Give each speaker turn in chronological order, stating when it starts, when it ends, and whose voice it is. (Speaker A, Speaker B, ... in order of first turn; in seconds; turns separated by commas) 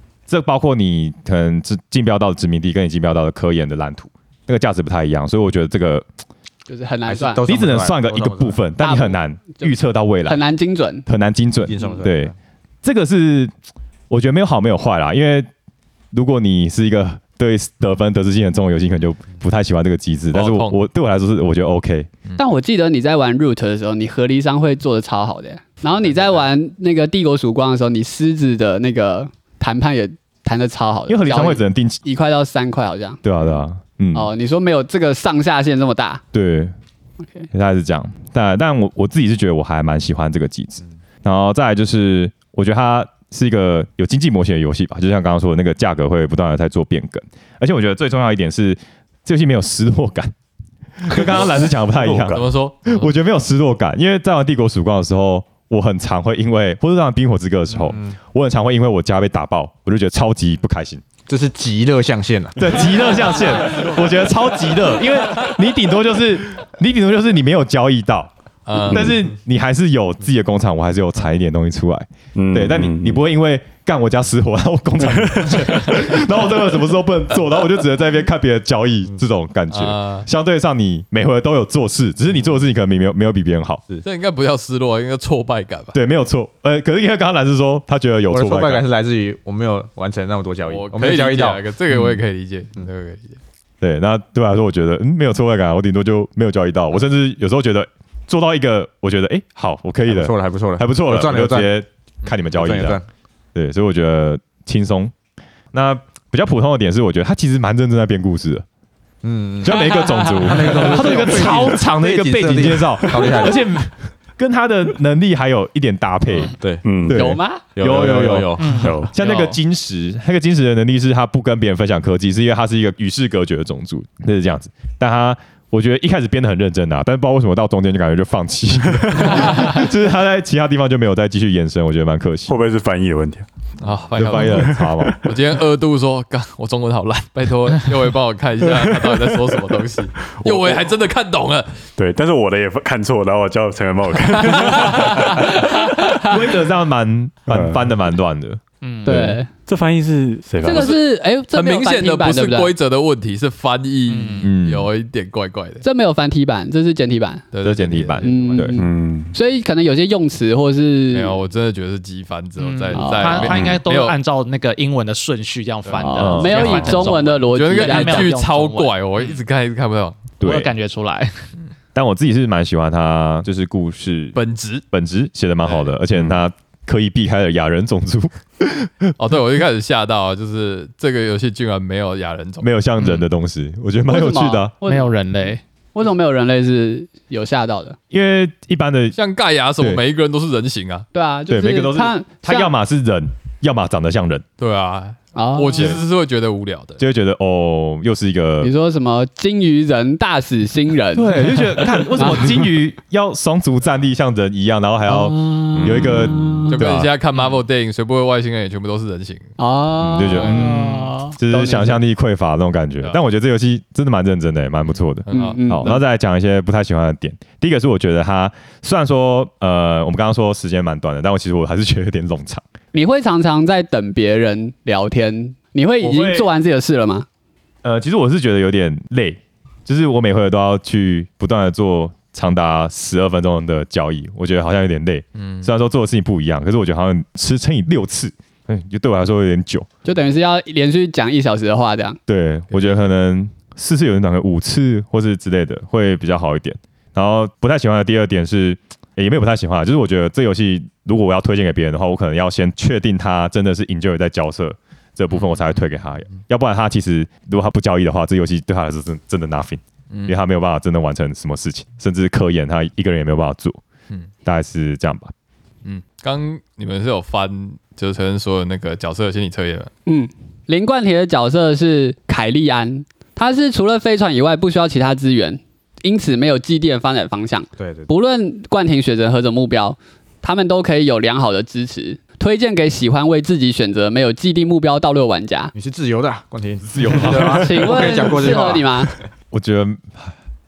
Speaker A: 0.3-6.0, Speaker B: 6.7-7.4, Speaker C: 7.0-8.6, Speaker A: 7.5-10.4, Speaker B: 8.8-9.7, Speaker B: 10.2-11.0, Speaker A: 11.1-13.5, Speaker C: 11.6-12.3, Speaker A: 14.1-15.5, Speaker A: 16.1-22.1, Speaker D: 20.3-20.8, Speaker B: 22.4-33.2, Speaker A: 31.1-32.0, Speaker A: 33.2-34.3, Speaker B: 34.1-36.2, Speaker A: 36.3-36.7, Speaker A: 37.5-50.3, Speaker A: 51.0-61.0, Speaker E: 51.9-52.4, Speaker D: 52.3-53.1, Speaker C: 57.7-58.1, Speaker C: 61.3-62.9, Speaker A: 62.5-83.8, Speaker D: 68.7-69.1, Speaker E: 72.3-73.2, Speaker E: 75.0-75.8, Speaker D: 79.7-80.3, Speaker D: 84.0-86.0, Speaker A: 85.9-88.8, Speaker C: 88.3-91.6, Speaker D: 90.7-93.4, Speaker A: 93.8-103.0, Speaker C: 100.1-101.7, Speaker C: 102.5-103.0, Speaker A: 103.5-105.1, Speaker A: 105.7-108.6, Speaker C: 109.2-113.7, Speaker A: 109.6-116.5, Speaker C: 116.6-116.9, Speaker E: 116.8-117.2, Speaker A: 117.1-132.5, Speaker B: 117.1-117.6, Speaker C: 117.8-118.9, Speaker F: 118.6-119.5, Speaker E: 118.8-119.1, Speaker E: 132.5-133.4, Speaker D: 133.8-141.8, Speaker A: 134.1-135.2, Speaker E: 134.6-135.2, Speaker E: 140.2-140.9, Speaker E: 142.0-145.4, Speaker D: 144.5-145.3, Speaker B: 145.3-146.3, Speaker A: 146.2-149.4, Speaker E: 147.5-147.9, Speaker F: 148.8-149.2, Speaker B: 149.0-149.5, Speaker E: 149.7-150.9, Speaker B: 150.6-152.7, Speaker D: 150.7-151.0, Speaker D: 151.5-155.8, Speaker F: 154.1-154.5, Speaker A: 154.4-154.9, Speaker B: 155.8-157.4, Speaker D: 157.5-158.6, Speaker A: 157.6-158.8, Speaker B: 158.2-161.4, Speaker E: 158.7-159.3, Speaker D: 161.1-164.2, Speaker F: 162.6-169.3, Speaker B: 162.9-163.5, Speaker D: 165.8-170.3, Speaker B: 166.0-168.3, Speaker A: 166.1-167.0, Speaker A: 170.4-170.7, Speaker F: 170.4-171.5, Speaker A: 171.9-174.4, Speaker D: 174.3-174.8, Speaker A: 174.9-179.1, Speaker D: 175.6-175.9, Speaker E: 176.1-176.4, Speaker D: 179.2-183.2, Speaker A: 182.6-184.7, Speaker B: 184.1-185.1, Speaker F: 184.8-185.6, Speaker B: 185.9-188.0, Speaker A: 188.1-189.2, Speaker D: 189.1-191.1, Speaker B: 191.1-192.7, Speaker A: 191.5-194.4, Speaker D: 194.6-197.0, Speaker B: 195.3-196.0, Speaker A: 197.0-198.7, Speaker B: 198.6-202.6, Speaker A: 201.1-207.1, Speaker B: 205.1-206.8, Speaker E: 205.8-206.2, Speaker D: 206.7-209.5, Speaker B: 209.6-212.0, Speaker A: 210.0-222.6, Speaker D: 214.9-216.0, Speaker B: 215.3-216.0, Speaker B: 222.9-227.3, Speaker A: 226.0-226.5, Speaker A: 227.8-239.9, Speaker D: 235.3-235.7, Speaker B: 240.0-242.2, Speaker A: 242.3-263.8, Speaker D: 242.7-243.0, Speaker D: 255.3-256.4, Speaker D: 260.1-260.4, Speaker A: 264.4-265.3, Speaker D: 265.8-269.9, Speaker B: 270.1-285.7, Speaker C: 277.8-278.1, Speaker C: 285.7-289.1, Speaker A: 286.9-288.1, Speaker B: 287.3-289.1, Speaker A: 289.5-290.3